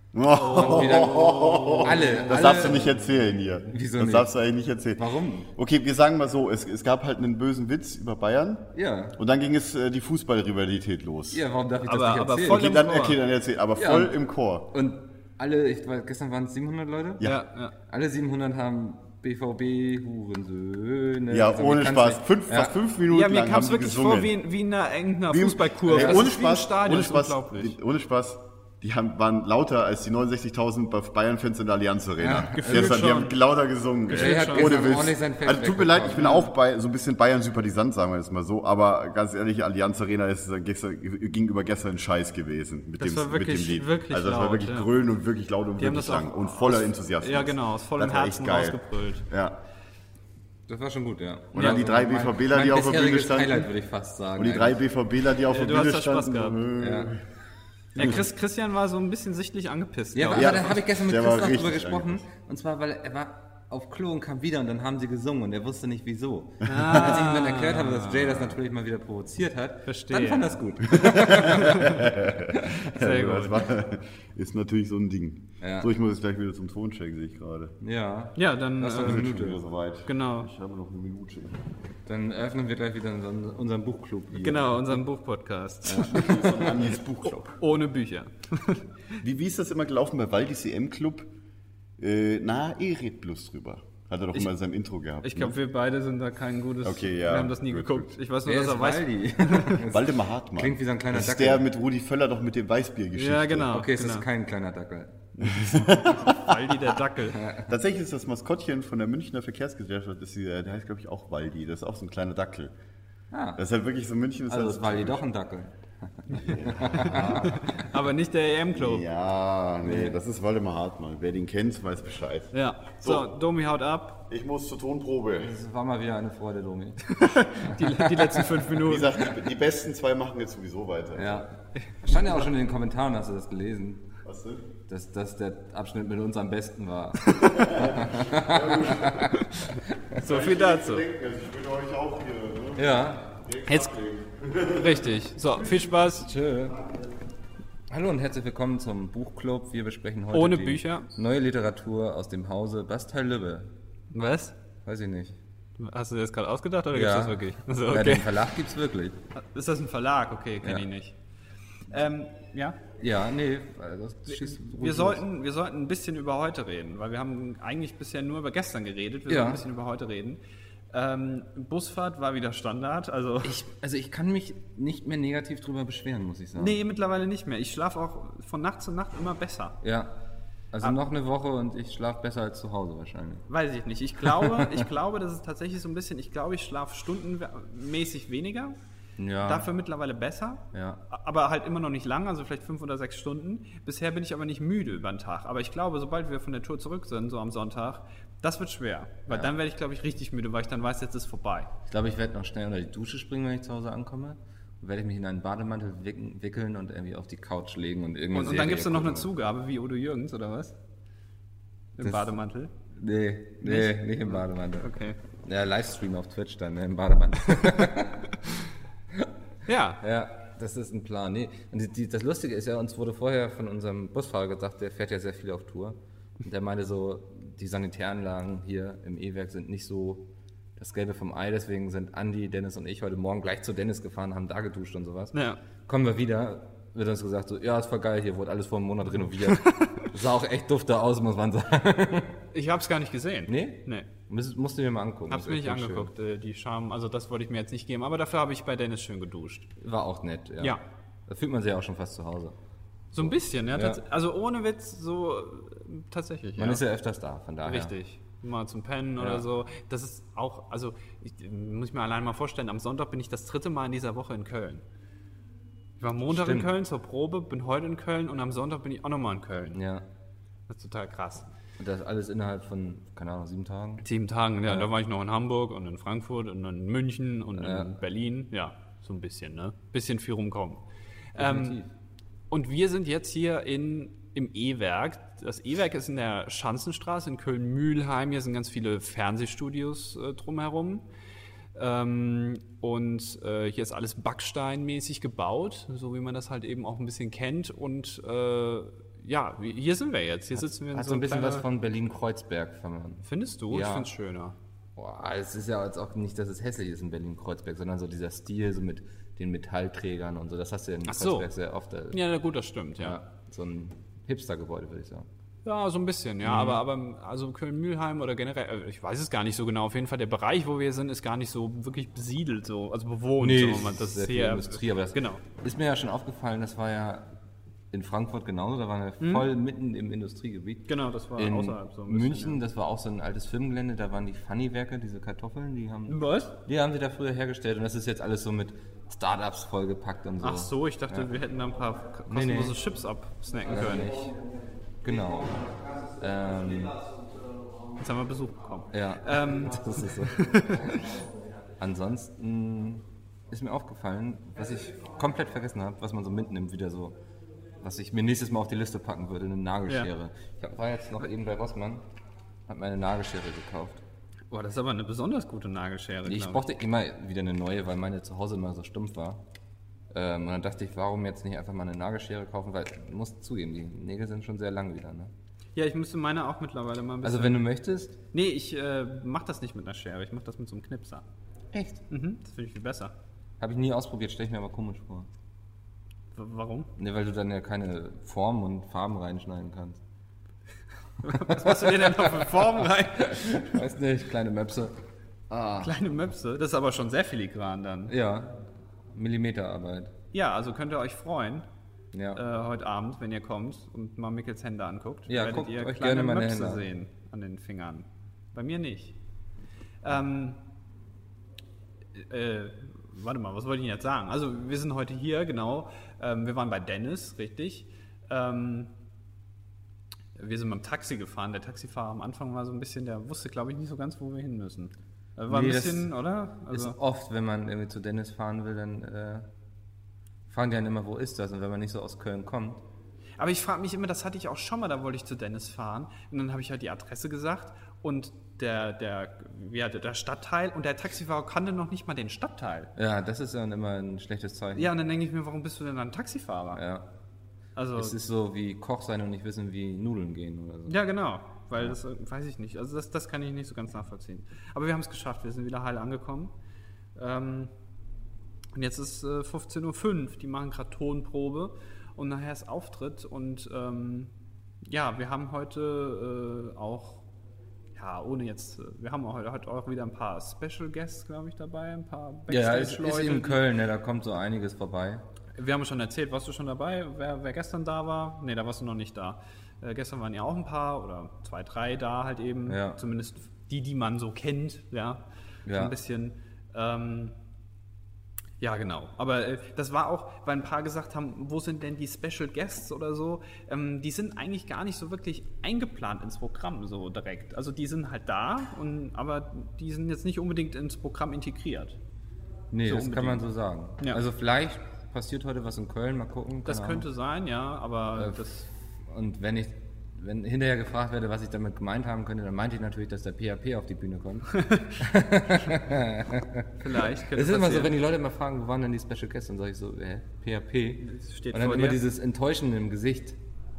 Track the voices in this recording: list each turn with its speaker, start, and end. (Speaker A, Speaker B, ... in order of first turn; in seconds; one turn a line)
Speaker A: 0.1-11.4
Speaker B: 0.3-2.1
Speaker C: 0.5-4.3
Speaker C: 5.0-5.5
Speaker C: 8.7-9.2
Speaker C: 11.3-12.8
Speaker B: 11.9-13.2
Speaker A: 12.5-14.7
Speaker C: 13.8-14.2
Speaker C: 14.7-17.3
Speaker B: 17.2-17.7
Speaker C: 17.9-22.8
Speaker A: 21.3-24.4
Speaker B: 23.1-27.8
Speaker A: 25.3-49.6
Speaker C: 25.9-26.3
Speaker C: 32.2-33.1
Speaker B: 32.5-33.4
Speaker B: 34.1-34.8
Speaker C: 34.1-36.5
Speaker B: 36.2-36.5
Speaker B: 43.0-44.9
Speaker B: 45.8-49.3
Speaker C: 50.7-54.8
Speaker A: 51.5-53.7
Speaker A: 54.4-57.2
Speaker B: 55.5-56.6
Speaker C: 56.8-57.1
Speaker B: 58.0-60.6
Speaker A: 58.0-58.2
Speaker C: 60.1-72.7
Speaker A: 60.3-62.2
Speaker B: 66.6-68.5
Speaker A: 66.8-67.1
Speaker B: 69.8-70.5
Speaker A: 70.9-77.8
Speaker B: 71.4-72.1
Speaker B: 72.8-73.7
Speaker C: 75.6-75.9
Speaker C: 77.8-79.6
Speaker B: 78.3-79.3
Speaker A: 79.0-81.6
Speaker B: 80.1-80.5
Speaker C: 82.1-85.0
Speaker B: 84.3-86.7
Speaker C: 85.8-86.8
Speaker A: 86.1-87.6
Speaker B: 87.6-88.8
Speaker A: 89.2-91.3
Speaker A: 92.0-95.6
Speaker B: 95.2-99.8
Speaker A: 96.8-98.1
Speaker C: 98.5-101.7
Speaker A: 99.9-103.8
Speaker B: 103.1-104.3
Speaker C: 103.7-105.2
Speaker A: 105.4-106.8
Speaker B: 105.5-107.4
Speaker C: 107.3-107.7
Speaker A: 107.7-112.7
Speaker C: 113.3-113.6
Speaker A: 113.6-115.2
Speaker C: 114.5-117.7
Speaker A: 116.4-117.6
Speaker B: 117.1-119.0
Speaker A: 118.7-123.3
Speaker C: 119.8-120.2
Speaker B: 122.5-124.2
Speaker A: 124.3-125.5
Speaker C: 125.4-128.6
Speaker B: 127.2-129.3
Speaker A: 128.8-131.5
Speaker C: 131.2-134.1
Speaker B: 131.8-132.2
Speaker A: 134.2-134.7
Speaker C: 134.9-139.4
Speaker A: 137.4-139.4
Speaker B: 139.6-141.1
Speaker A: 140.2-145.1
Speaker C: 142.8-143.3
Speaker B: 143.7-143.9
Speaker B: 144.7-146.3
Speaker C: 146.1-146.8
Speaker C: 147.9-153.7
Speaker B: 150.3-151.1
Speaker B: 154.1-154.6
Speaker C: 154.8-155.4
Speaker B: 155.8-158.3
Speaker C: 156.9-159.2
Speaker B: 159.4-161.2
Speaker B: 161.9-162.8
Speaker C: 163.0-165.2
Speaker B: 164.3-170.4
Speaker C: 169.3-169.6
Speaker B: 170.9-173.6
Speaker C: 173.4-176.8
Speaker B: 176.6-179.8
Speaker C: 179.8-180.1
Speaker C: 180.7-183.5
Speaker B: 183.5-188.8
Speaker C: 184.2-184.9
Speaker C: 189.2-189.7
Speaker B: 189.4-201.7
Speaker C: 190.7-191.0
Speaker C: 201.9-209.3
Speaker B: 208.3-210.8
Speaker B: 212.0-212.7
Speaker C: 212.0-212.3
Speaker C: 212.9-218.5
Speaker B: 213.6-215.2
Speaker B: 219.7-220.0
Speaker C: 220.0-230.3
Speaker C: 230.8-242.4
Speaker B: 235.3-235.6
Speaker B: 239.5-240.1
Speaker B: 242.5-244.1
Speaker C: 243.5-246.1
Speaker B: 245.3-249.7
Speaker C: 249.8-252.6
Speaker B: 253.1-256.8
Speaker C: 253.2-254.0
Speaker C: 256.6-257.9
Speaker B: 257.6-264.8
Speaker C: 259.2-259.4
Speaker B: 266.0-269.8
Speaker C: 266.3-266.7
Speaker C: 269.7-270.1
Speaker B: 270.7-271.5
Speaker C: 271.8-274.1
Speaker B: 274.0-280.8
Speaker C: 277.6-277.9
Speaker B: 281.4-281.8
Speaker C: 281.4-281.9
Speaker B: 282.5-291.1
Speaker B: 291.8-301.6
Speaker C: 300.6-304.1
Speaker B: 303.2-304.6
Speaker C: 305.0-312.2
Speaker B: 311.1-311.5
Speaker B: 312.1-313.2
Speaker C: 313.0-315.3
Speaker B: 315.6-325.4
Speaker C: 316.4-316.8
Speaker C: 323.4-327.3
Speaker C: 327.9-341.3
Speaker B: 329.2-329.5
Speaker B: 330.9-332.6
Speaker B: 336.1-336.5
Speaker B: 340.4-344.2
Speaker C: 342.3-342.8
Speaker C: 343.7-344.4
Speaker C: 345.0-347.0
Speaker B: 348.0-351.2
Speaker C: 348.9-351.0
Speaker C: 351.8-357.2
Speaker C: 357.8-362.0
Speaker C: 362.7-364.0
Speaker B: 364.5-366.6
Speaker C: 366.3-369.4
Speaker C: 370.1-375.3
Speaker B: 375.8-377.6
Speaker C: 377.2-378.2
Speaker B: 378.3-381.2
Speaker C: 381.7-382.0
Speaker B: 382.1-383.1
Speaker C: 383.6-385.3
Speaker B: 386.4-386.9
Speaker C: 387.0-390.0
Speaker B: 391.2-393.7
Speaker C: 391.3-394.9
Speaker C: 395.5-395.9
Speaker B: 395.8-398.1
Speaker C: 398.1-398.6
Speaker C: 399.1-400.1
Speaker B: 400.3-401.7
Speaker C: 402.1-402.4
Speaker B: 402.4-409.1
Speaker C: 405.3-406.9
Speaker B: 410.0-410.6
Speaker B: 412.1-418.9
Speaker B: 420.4-427.0
Speaker C: 425.5-426.1
Speaker C: 426.7-429.5
Speaker C: 430.5-432.8
Speaker B: 433.4-442.9
Speaker C: 443.0-444.9
Speaker B: 444.8-446.8
Speaker C: 446.7-447.1
Speaker B: 447.8-448.1
Speaker C: 448.0-451.0
Speaker B: 450.9-456.5
Speaker B: 457.2-457.7
Speaker B: 458.8-464.3
Speaker B: 464.9-467.3
Speaker B: 467.9-473.6
Speaker C: 472.5-475.2
Speaker B: 475.6-487.4
Speaker C: 482.7-483.0
Speaker C: 485.7-485.9
Speaker B: 488.6-502.0
Speaker C: 502.7-507.1
Speaker B: 502.9-503.4
Speaker B: 506.7-508.7
Speaker C: 508.2-508.4
Speaker C: 509.1-523.4
Speaker B: 514.5-514.9
Speaker B: 516.8-517.9
Speaker B: 521.0-522.0